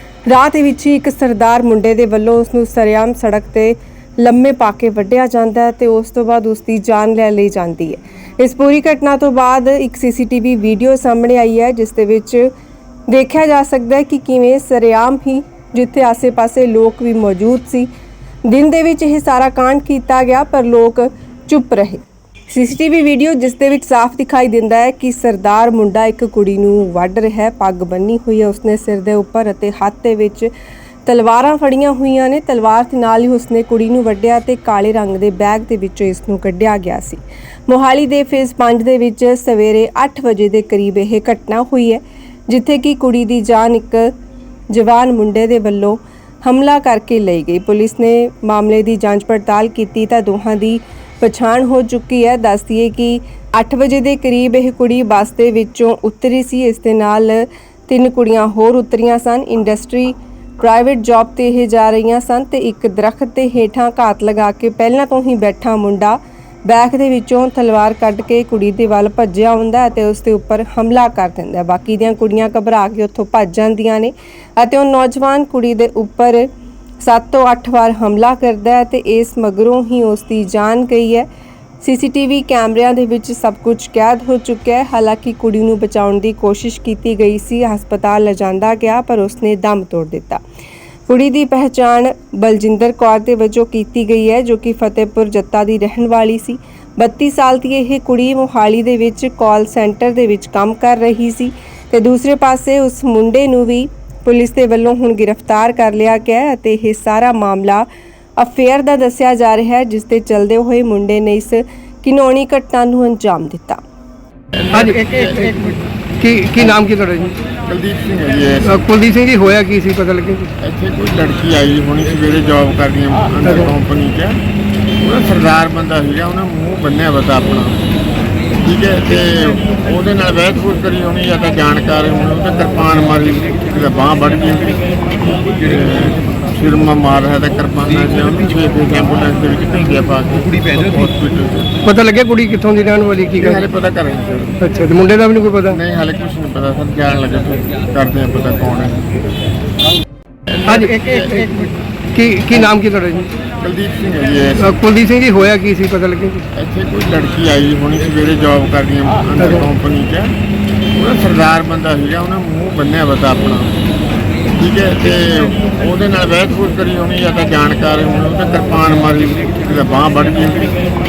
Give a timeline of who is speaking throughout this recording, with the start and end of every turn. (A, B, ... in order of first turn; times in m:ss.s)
0:00.2-0:12.5 A
0:13.1-0:17.9 A
0:18.4-0:30.5 A
0:31.0-0:44.1 A
0:44.7-1:16.5 A
1:17.0-1:21.3 A
1:21.8-1:30.4 A
1:31.1-1:47.9 A
1:48.4-1:53.8 A
1:54.6-1:55.8 B
1:54.7-1:55.5 C
1:56.2-1:57.4 C
1:57.6-1:58.8 B
1:58.6-2:00.5 C
2:00.6-2:04.4 B
2:03.5-2:03.7 C
2:05.0-2:07.8 B
2:08.6-2:14.8 B
2:15.6-2:21.7 B
2:21.8-2:23.6 C
2:23.4-2:24.6 B
2:24.6-2:25.8 C
2:25.7-2:29.0 B
2:30.5-2:31.6 B
2:30.7-2:31.5 C
2:32.1-2:33.3 C
2:33.6-2:34.7 B
2:34.6-2:36.5 C
2:36.5-2:40.3 B
2:40.9-2:43.7 B
2:44.6-2:50.8 B